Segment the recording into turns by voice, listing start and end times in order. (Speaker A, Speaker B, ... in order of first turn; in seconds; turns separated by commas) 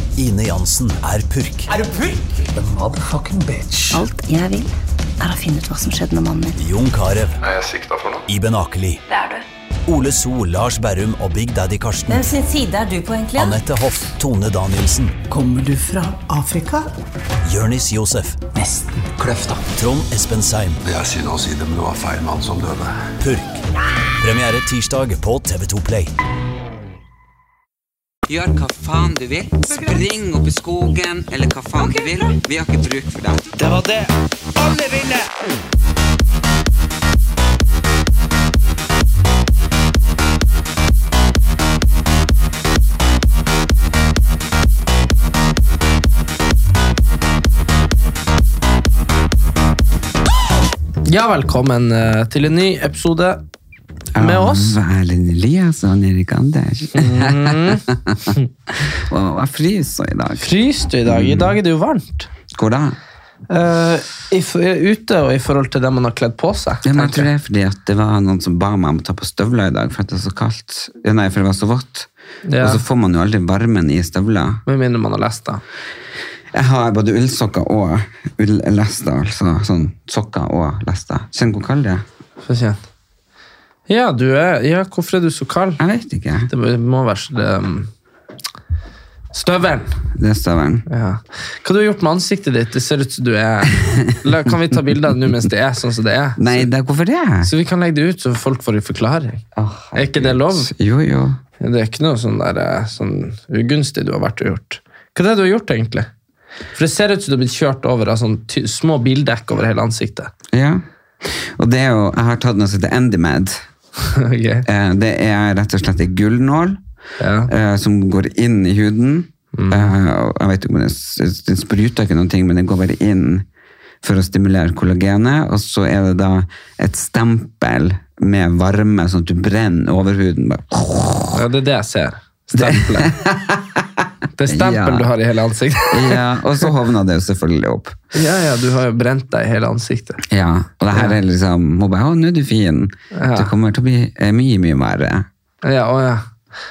Speaker A: 0.1-1.7, Speaker B: 2.5-4.0, Speaker C: 3.9-6.5, Speaker A: 6.6-7.4, Speaker D: 7.4-8.2, Speaker A: 8.3-9.0, Speaker E: 9.1-9.4, Speaker A: 9.8-12.2, Speaker E: 12.1-13.6, Speaker A: 13.3-15.2, Speaker B: 15.3-16.9, Speaker A: 17.4-18.4, Speaker B: 18.5-19.6, Speaker A: 19.7-20.8, Speaker D: 20.8-23.0, Speaker A: 23.2-23.6, Speaker A: 24.2-26.1, Speaker F: 28.3-33.5, Speaker G: 33.6-34.0, Speaker F: 34.7-35.2, Speaker G: 51.0-53.4, Speaker F: 54.1-61.6, Speaker G: 54.2-54.8, Speaker G: 56.9-57.9, Speaker G: 60.4-62.3, Speaker F: 62.5-63.0, Speaker G: 63.5-67.3, Speaker F: 66.8-74.6, Speaker G: 72.4-72.8, Speaker G: 74.7-75.6, Speaker F: 76.5-82.0, Speaker G: 82.4-82.8, Speaker G: 83.9-85.8, Speaker F: 85.8-86.5, Speaker G: 86.5-87.9, Speaker G: 89.3-90.0, Speaker F: 90.1-90.8, Speaker G: 90.9-96.7, Speaker F: 96.4-97.5, Speaker G: 97.4-99.4, Speaker F: 99.5-101.4, Speaker G: 99.9-100.7, Speaker G: 101.6-106.1, Speaker G: 106.7-110.3, Speaker F: 110.5-113.6, Speaker G: 114.1-114.7, Speaker F: 114.7-116.8, Speaker G: 117.2-117.5, Speaker F: 117.5-123.5, Speaker G: 119.5-119.9, Speaker F: 124.0-131.4, Speaker G: 131.3-133.1, Speaker F: 132.6-135.1, Speaker G: 134.3-136.2, Speaker F: 135.9-137.9, Speaker G: 138.1-140.2, Speaker F: 140.3-145.3, Speaker G: 143.1-143.5, Speaker G: 145.6-146.2